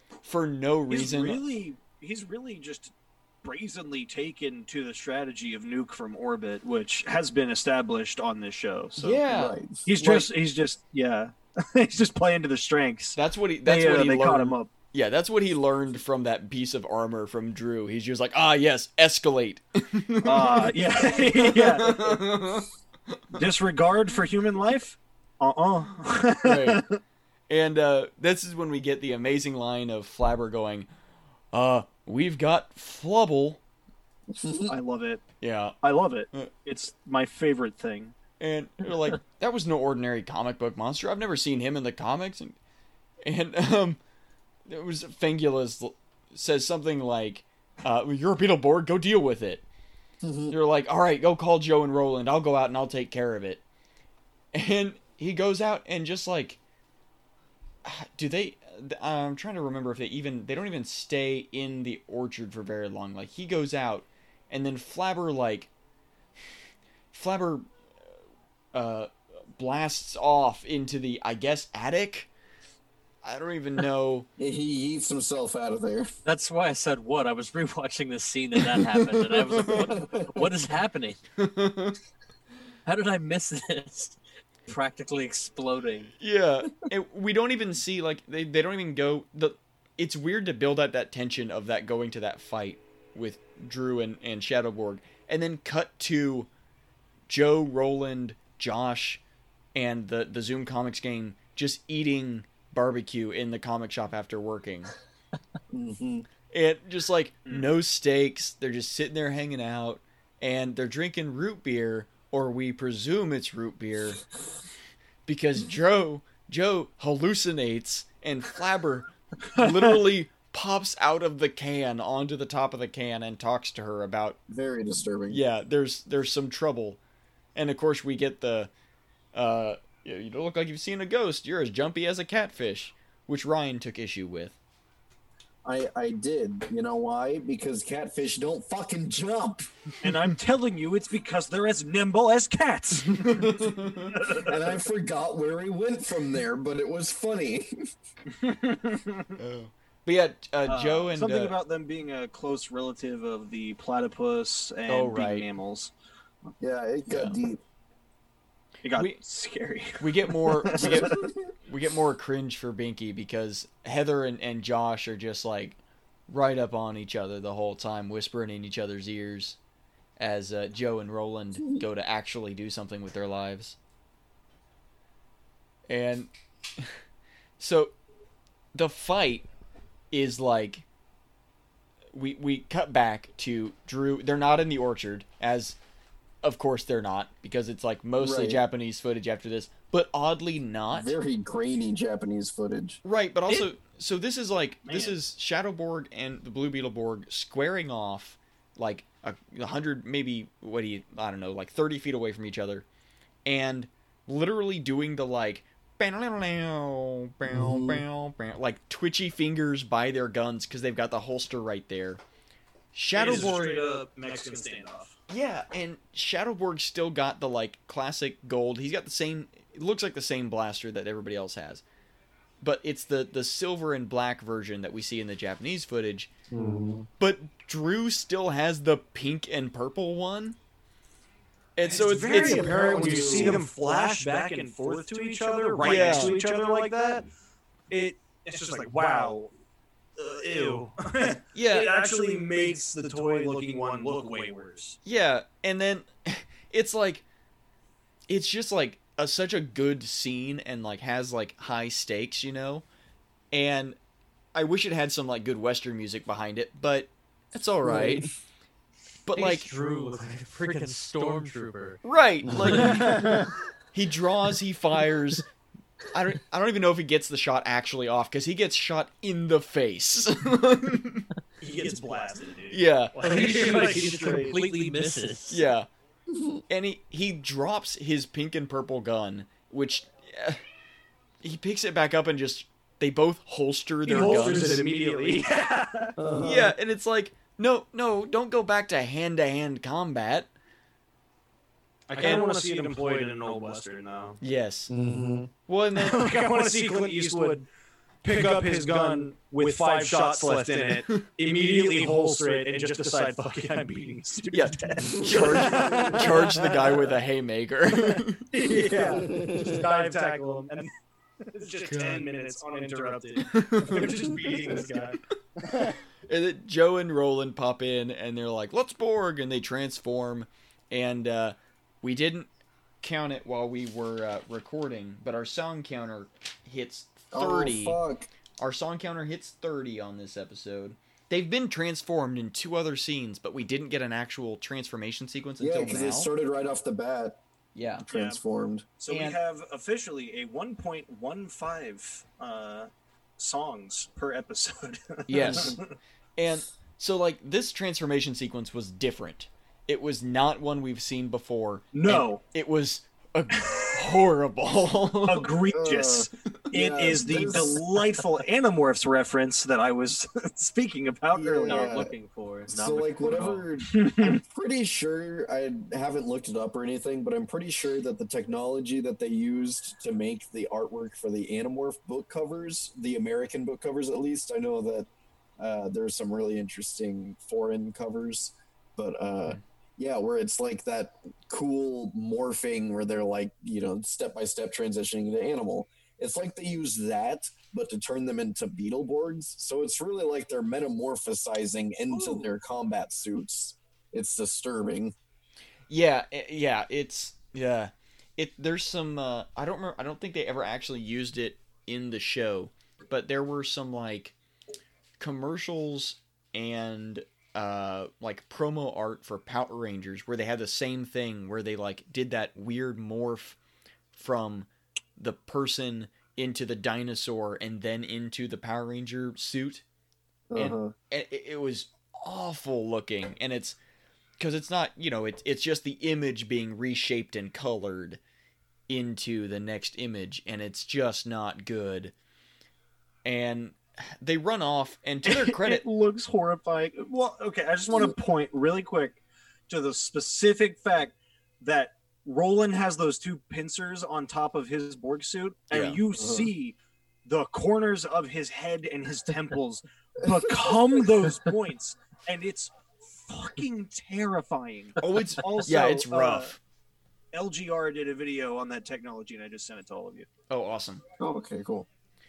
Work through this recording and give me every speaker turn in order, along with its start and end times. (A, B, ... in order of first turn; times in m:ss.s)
0:00.2-0:01.4 A
0:00.9-0:09.2 B
0:09.0-0:09.6 A
0:09.3-0:10.3 C
0:09.9-0:14.7 B
0:13.2-0:23.4 A
0:20.2-0:22.2 B
0:23.3-0:27.0 B
0:26.4-0:26.8 A
0:27.5-0:30.9 A
0:31.5-0:33.6 A
0:34.3-0:34.8 C
0:34.7-0:35.2 B
0:35.4-0:35.8 A
0:35.8-0:38.2 B
0:38.4-0:42.6 A
0:43.2-0:44.0 A
0:44.7-0:49.6 A
0:50.2-0:50.6 C
0:50.5-0:53.6 A
0:54.5-0:56.6 A
0:57.8-1:05.7 A
1:07.1-1:07.7 A
1:08.7-1:12.3 A
1:13.2-1:14.3 A
1:14.4-1:16.1 C
1:16.3-1:21.2 D
1:18.9-1:19.5 A
1:19.6-1:20.6 C
1:21.4-1:22.0 A
1:22.9-1:26.1 D
1:26.2-1:36.5 A
1:37.3-1:39.2 A
1:39.8-1:44.9 A
1:45.7-1:46.3 C
1:46.5-1:54.2 A
1:55.3-2:04.4 A
2:04.5-2:05.4 C
2:05.3-2:07.0 A
2:07.6-2:08.7 A
2:09.3-2:14.6 A
2:15.6-2:19.7 C
2:20.0-2:24.8 B
2:23.2-2:24.2 A
2:24.4-2:27.9 C
2:28.3-2:29.3 B
2:29.4-2:31.6 A
2:30.7-2:35.9 B
2:34.9-2:35.5 A
2:36.6-2:37.6 C
2:37.1-2:37.4 A
2:38.8-2:41.2 B
2:40.0-2:49.6 A
2:40.9-2:41.5 C
2:50.2-2:53.8 A
2:55.9-2:57.0 A
2:57.6-2:57.9 A
2:58.7-2:59.5 A
3:00.1-3:00.8 A
3:02.1-3:05.8 A
3:06.4-3:11.1 A
3:08.2-3:08.6 C
3:10.9-3:13.0 C
3:13.0-3:22.9 A
3:14.9-3:15.2 B
3:23.5-3:32.2 A
3:27.5-3:28.0 C
3:32.9-3:33.8 A
3:33.1-3:35.1 B
3:35.3-3:41.8 A
3:42.6-3:46.3 A
3:46.5-3:47.1 C
3:47.2-3:50.6 A
3:51.8-3:52.8 A
3:51.9-3:56.7 B
3:51.9-3:57.2 E
3:52.3-3:53.6 C
3:55.8-3:56.4 A
3:57.9-3:59.5 B
4:00.2-4:05.0 B
4:01.5-4:01.9 A
4:02.1-4:02.5 E
4:05.0-4:07.2 A
4:08.3-4:12.8 A
4:13.5-4:14.0 A
4:14.5-4:18.3 A
4:17.8-4:18.3 C
4:19.3-4:19.7 A
4:19.4-4:22.0 D
4:22.0-4:23.4 A
4:22.5-4:23.3 C
4:22.7-4:23.2 D
4:23.9-4:25.4 A
4:26.1-4:31.3 A
4:31.6-4:34.7 B
4:32.7-4:33.4 A
4:33.2-4:35.6 D
4:33.5-4:34.9 E
4:35.5-4:35.9 A
4:36.3-4:36.6 C
4:36.7-4:40.6 A
4:41.4-4:44.8 A
4:44.1-4:46.1 B
4:44.1-4:45.5 E
4:46.2-4:46.7 C
4:46.4-4:50.5 A
4:52.1-4:53.8 E
4:52.1-4:54.4 B
4:52.2-4:52.6 A
4:54.4-4:54.9 A
4:54.9-4:55.5 C
4:55.7-4:56.3 A
4:56.1-4:57.4 B
4:56.3-4:57.6 E
4:58.2-5:05.2 E
4:58.3-5:02.3 B
5:04.4-5:07.1 B
5:04.5-5:08.8 A
5:05.2-5:06.1 C
5:08.5-5:10.3 B
5:08.8-5:09.2 E
5:09.2-5:09.8 C
5:09.8-5:10.8 E
5:11.6-5:15.1 B
5:11.7-5:13.4 E
5:11.8-5:12.3 A
5:13.5-5:14.4 A
5:13.9-5:15.1 E
5:16.3-5:22.5 A
5:23.0-5:28.0 A
5:27.3-5:28.3 C
5:28.6-5:36.3 A
5:35.6-5:37.4 C
5:37.8-5:38.1 A
5:38.1-5:38.4 B
5:38.1-5:38.9 C
5:39.0-5:45.8 B
5:39.1-5:39.4 A
5:45.3-5:55.5 A
5:51.9-5:52.4 B
5:55.2-6:01.9 B
5:55.7-5:57.8 C
6:01.4-6:02.1 C
6:01.6-6:03.7 D
6:02.7-6:15.1 C
6:03.9-6:04.4 B
6:15.6-6:35.1 C
6:32.1-6:32.5 B
6:35.9-6:44.4 A
6:45.2-6:53.6 A
6:54.1-6:59.8 A
7:00.5-7:00.9 C
7:00.6-7:03.8 A
7:04.4-7:08.2 A
7:08.9-7:12.1 A
7:13.2-7:15.8 A
7:15.3-7:36.5 B
7:25.7-7:26.0 A
7:26.2-7:26.5 C
7:30.3-7:31.0 C
7:35.0-7:36.6 A
7:37.3-7:40.3 B
7:40.5-7:41.0 A
7:41.2-7:41.9 C